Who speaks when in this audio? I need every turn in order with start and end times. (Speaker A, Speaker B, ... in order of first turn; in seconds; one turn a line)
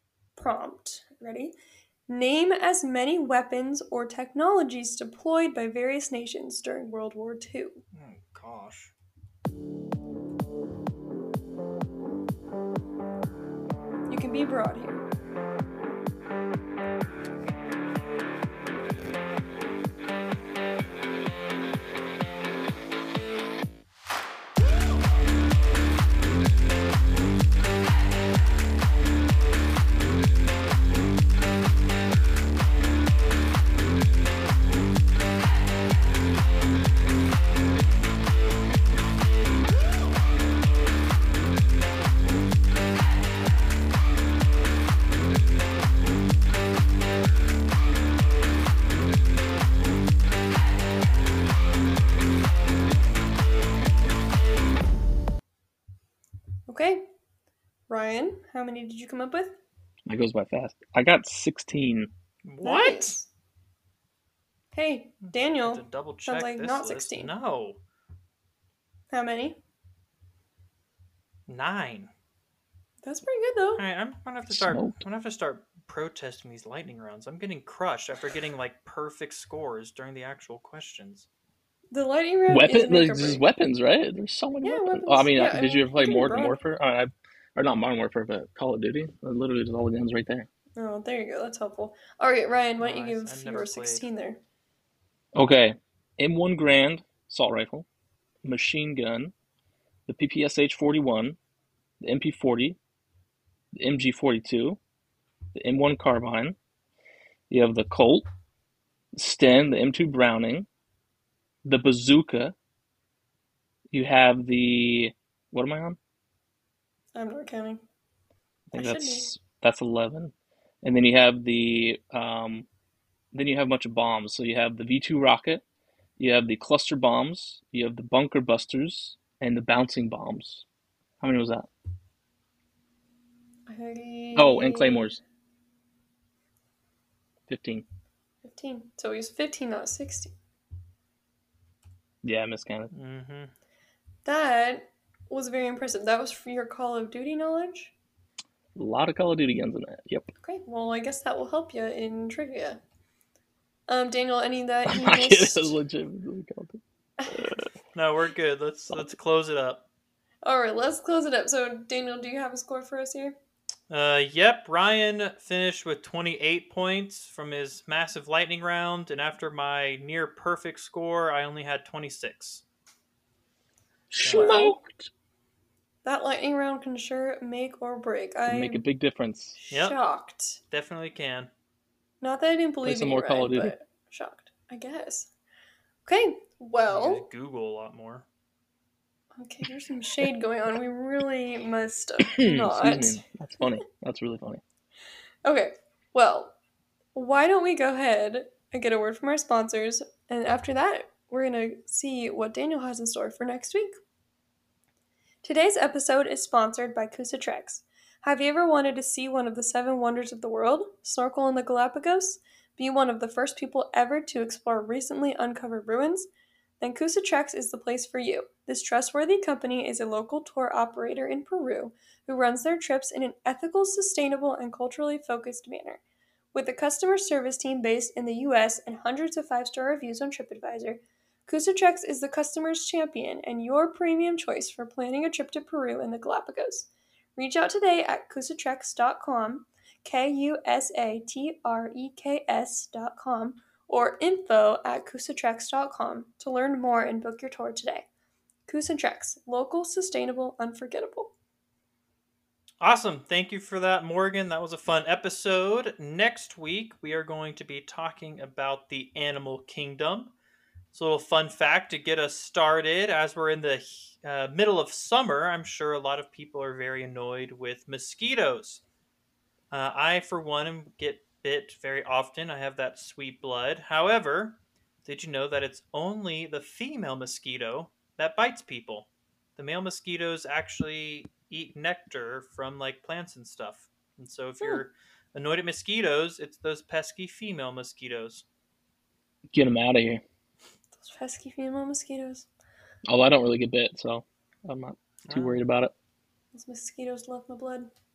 Speaker A: 0.4-1.5
Speaker A: 2.1-7.8
Speaker B: 7.9-8.9
Speaker A: 14.1-15.1
Speaker A: 56.7-57.1
Speaker A: 57.9-59.6
Speaker C: 60.1-62.1
Speaker B: 62.5-63.2
Speaker A: 62.6-63.3
Speaker A: 64.7-67.3
Speaker B: 65.6-67.8
Speaker A: 69.1-69.6
Speaker B: 71.5-72.1
Speaker A: 73.0-73.8
Speaker B: 73.8-81.3
Speaker C: 74.5-75.0
Speaker A: 81.9-83.5
Speaker C: 82.5-90.5
Speaker A: 84.6-86.6
Speaker A: 90.8-94.4
Speaker B: 92.8-94.1
Speaker C: 95.3-97.9
Speaker C: 98.4-99.3
Speaker C: 100.1-101.4
Speaker C: 102.0-102.8
Speaker C: 103.8-104.8
Speaker C: 105.5-106.6
Speaker C: 107.5-108.3
Speaker C: 109.1-110.7
Speaker C: 111.7-112.5
Speaker C: 113.9-116.0
Speaker A: 117.2-117.8
Speaker C: 118.7-122.7
Speaker A: 118.7-119.3
Speaker C: 123.3-125.6
Speaker C: 126.2-130.7
Speaker C: 131.2-131.7
Speaker A: 133.7-135.1
Speaker C: 134.3-135.2
Speaker C: 137.5-137.8
Speaker A: 138.4-140.3
Speaker C: 142.2-142.9
Speaker B: 142.9-143.5
Speaker A: 144.2-147.9
Speaker C: 148.8-150.3
Speaker A: 150.4-152.8
Speaker A: 153.9-155.8
Speaker C: 154.9-157.7
Speaker A: 157.2-157.5
Speaker B: 157.9-159.8
Speaker A: 160.4-163.4
Speaker B: 163.9-172.6
Speaker C: 174.1-175.1
Speaker B: 174.2-174.6
Speaker A: 174.2-174.8
Speaker A: 176.0-178.8
Speaker C: 178.5-179.6
Speaker A: 179.6-180.6
Speaker B: 179.7-180.0
Speaker B: 180.7-181.5
Speaker A: 182.2-185.3
Speaker C: 182.8-183.7
Speaker A: 186.1-187.3
Speaker B: 186.9-188.2
Speaker A: 189.4-193.2
Speaker C: 192.3-194.6
Speaker A: 195.4-196.6
Speaker A: 197.2-203.9
Speaker A: 205.4-216.3
Speaker A: 216.8-226.0
Speaker A: 226.5-248.1
Speaker A: 248.7-251.3
Speaker B: 252.8-260.3
Speaker B: 260.9-268.8
Speaker B: 269.7-288.4
Speaker C: 289.5-290.2
Speaker A: 291.0-292.5
Speaker C: 293.1-295.9
Speaker B: 295.3-295.6
Speaker A: 296.5-297.9